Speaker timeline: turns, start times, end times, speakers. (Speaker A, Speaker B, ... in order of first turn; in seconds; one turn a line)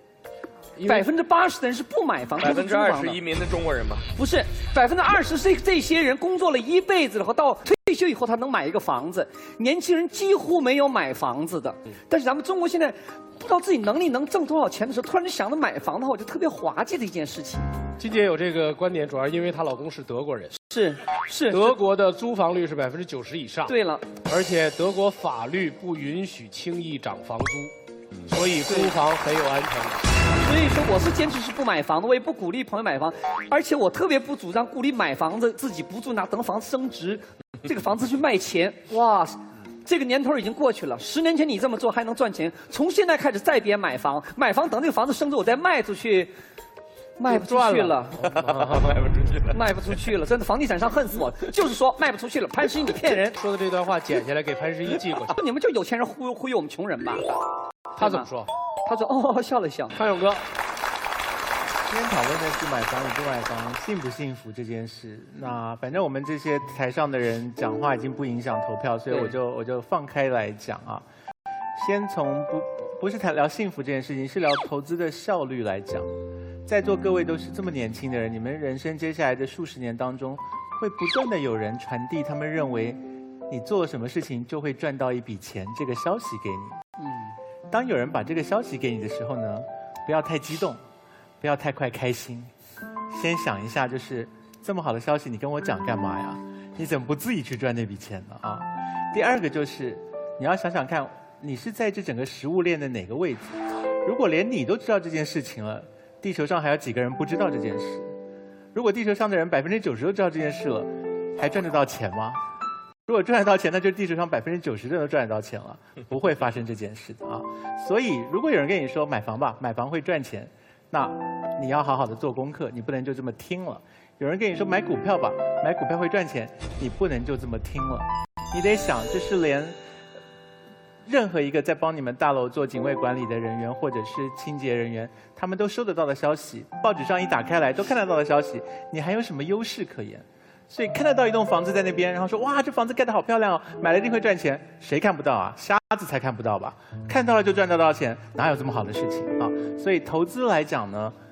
Speaker A: 0.8-3.2
Speaker B: 2.4-4.1
Speaker A: 4.2-17.7
Speaker C: 18.0-20.5
Speaker A: 20.6-21.8
Speaker C: 21.5-27.7
Speaker A: 23.6-24.1
Speaker C: 28.3-30.0
Speaker A: 28.6-29.0
Speaker A: 30.3-46.3
Speaker A: 47.2-48.2
Speaker B: 48.2-49.6
Speaker C: 48.4-48.8
Speaker A: 49.5-53.3
Speaker C: 53.1-55.3
Speaker A: 55.2-57.4
Speaker A: 58.0-58.3
Speaker C: 58.0-58.5
Speaker A: 58.9-60.0
Speaker C: 60.0-60.4
Speaker D: 61.9-71.0
Speaker D: 71.8-76.1
Speaker D: 76.7-86.8
Speaker D: 87.7-90.8
Speaker D: 91.4-92.5
Speaker D: 93.1-103.5
Speaker D: 104.0-108.1
Speaker D: 108.7-112.4
Speaker D: 113.1-129.8
Speaker D: 131.1-151.2